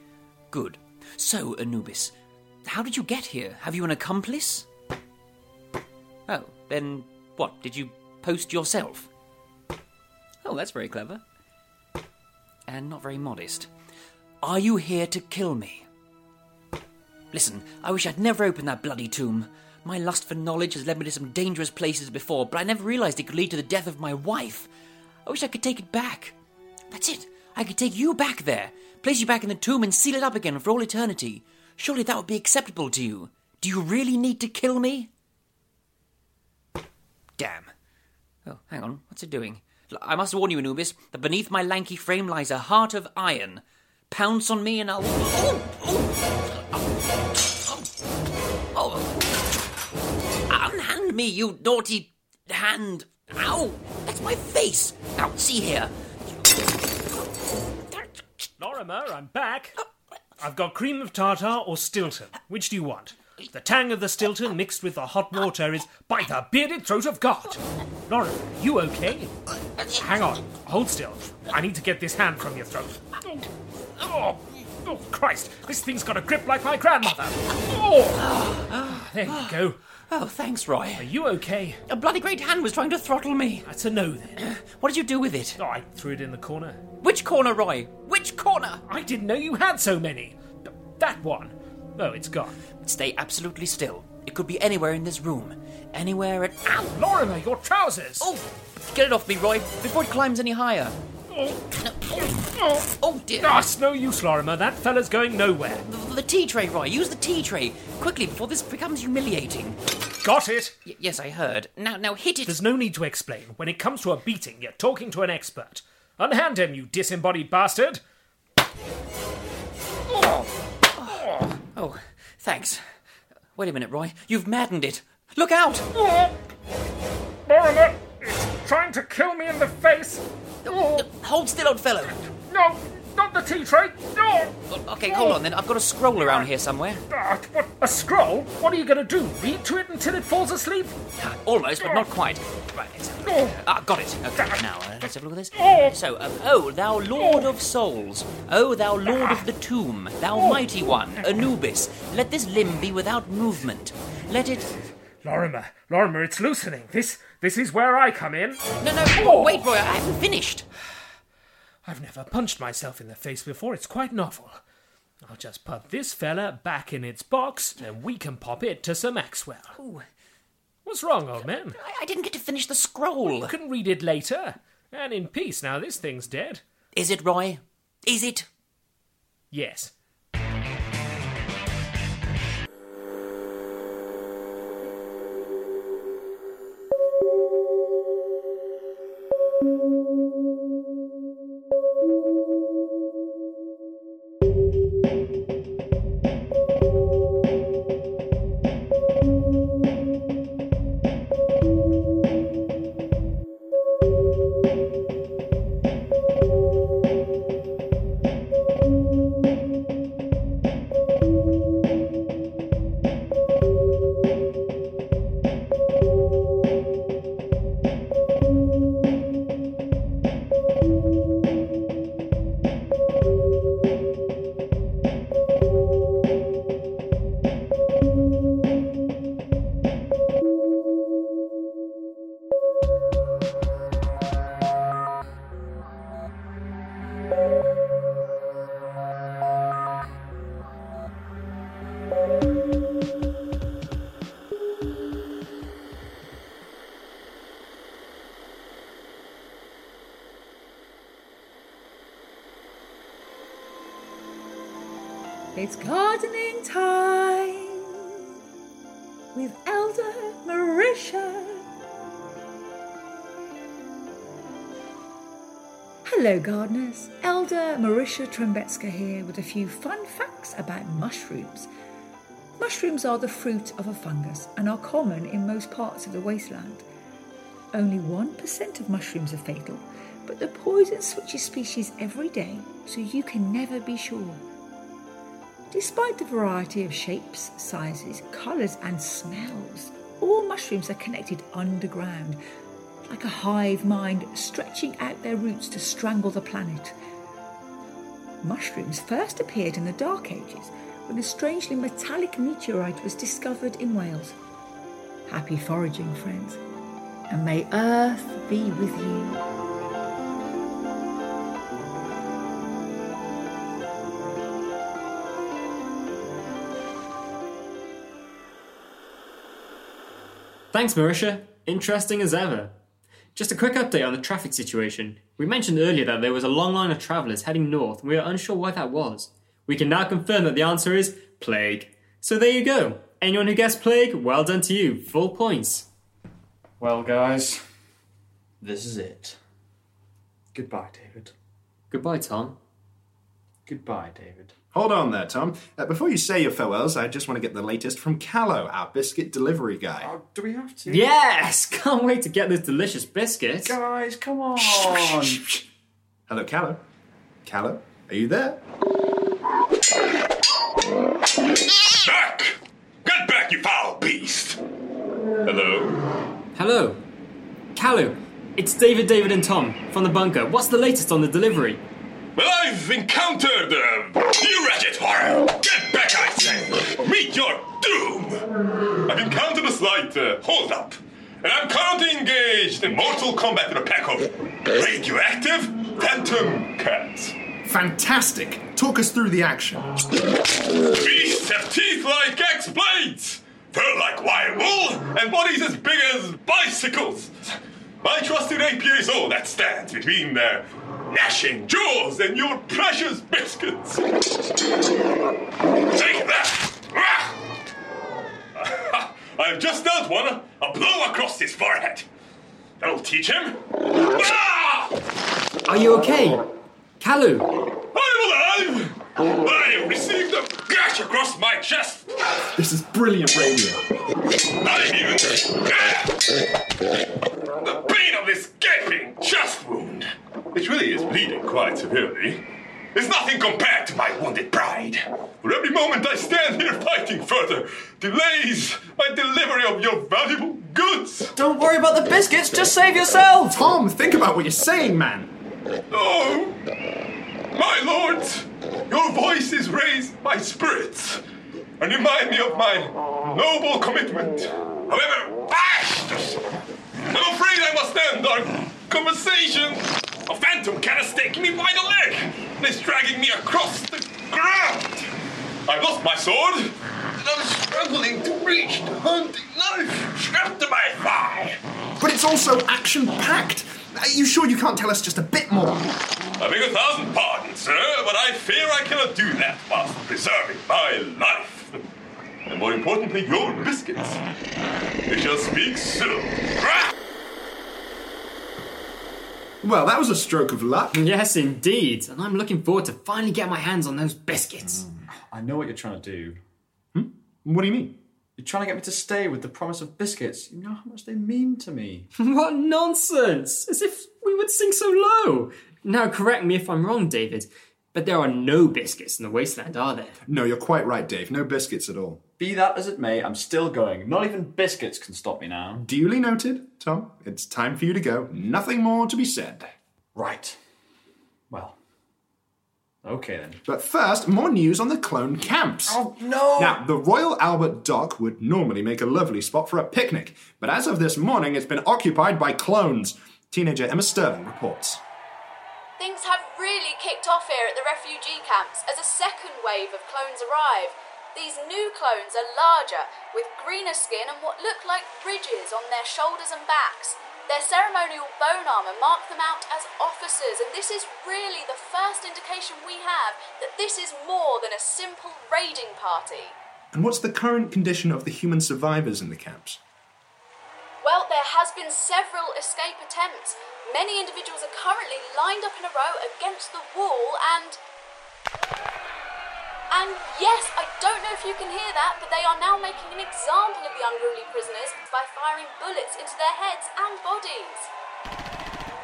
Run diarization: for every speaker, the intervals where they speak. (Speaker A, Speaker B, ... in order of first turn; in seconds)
Speaker A: 0.5-4.7, 6.3-9.1, 10.4-11.2, 12.7-13.7, 14.4-15.8, 17.3-24.7, 25.2-26.4, 26.9-35.1, 37.4-37.7, 38.5-46.2, 47.5-47.9, 48.8-49.2, 50.5-56.6, 57.9-58.2, 78.1-81.1, 81.9-83.7, 84.4-85.6, 87.0-88.8, 92.8-96.8, 98.2-101.0, 101.8-102.5, 103.0-103.6, 105.8-109.8, 110.9-112.6, 120.1-122.9, 123.6-125.9, 130.7-132.2, 134.7-137.1, 141.2-154.8, 158.8-160.7, 169.7-170.1, 171.4-173.6, 176.9-178.5
Speaker B: 58.6-59.7, 60.4-67.5, 68.1-69.3, 70.0-73.0, 74.1-77.1, 79.1-79.7, 81.0-81.8, 83.7-84.4, 85.6-86.8, 88.9-92.5, 96.9-98.2, 103.5-105.8, 110.2-110.7, 112.5-118.0, 127.5-130.2, 132.5-134.3, 137.2-140.9, 155.2-158.6, 161.9-164.6, 165.2-169.7, 170.9-171.7, 173.5-176.6, 179.5-179.9
Speaker C: 255.6-258.1, 259.3-261.6, 266.1-271.7, 272.6-276.9, 277.7-284.4, 285.7-292.4, 293.1-296.9, 298.4-304.4, 305.3-306.6, 307.3-309.4
Speaker D: 320.7-322.7, 323.4-335.9, 341.9-342.6, 350.9-353.8, 366.6-367.0, 367.8-371.8, 415.7-416.4, 417.0-417.5, 490.9-494.8, 502.2-510.2
Speaker E: 336.8-337.6, 338.6-339.4, 340.5-341.3, 343.7-344.5, 350.0-351.1, 353.6-355.4, 441.4-443.6, 494.6-496.4, 498.4-502.1, 512.4-515.9, 520.2-520.6, 521.5-521.8, 523.0-523.6, 525.9-526.8
Speaker F: 344.7-350.1, 354.6-355.6, 356.3-356.8, 357.4-358.6, 387.6-389.9, 422.6-423.8, 443.5-445.3, 472.0-475.9, 489.6-490.9, 496.9-498.0, 510.3-512.2, 515.8-519.7, 523.6-526.0, 526.6-535.0, 556.9-559.8
Speaker G: 362.0-364.6, 365.4-366.0, 372.4-378.4, 379.1-387.4, 390.9-397.4, 398.0-404.2, 405.9-407.4, 408.6-412.1, 412.8-414.9, 417.9-422.1, 424.5-426.2, 427.6-432.4, 432.9-441.3, 445.9-446.6, 447.5-451.2, 451.8-456.4, 457.1-465.1, 465.7-471.6, 476.4-481.8, 482.5-484.2, 485.1-486.9
Speaker H: 536.0-556.6, 561.0-567.8, 569.9-577.9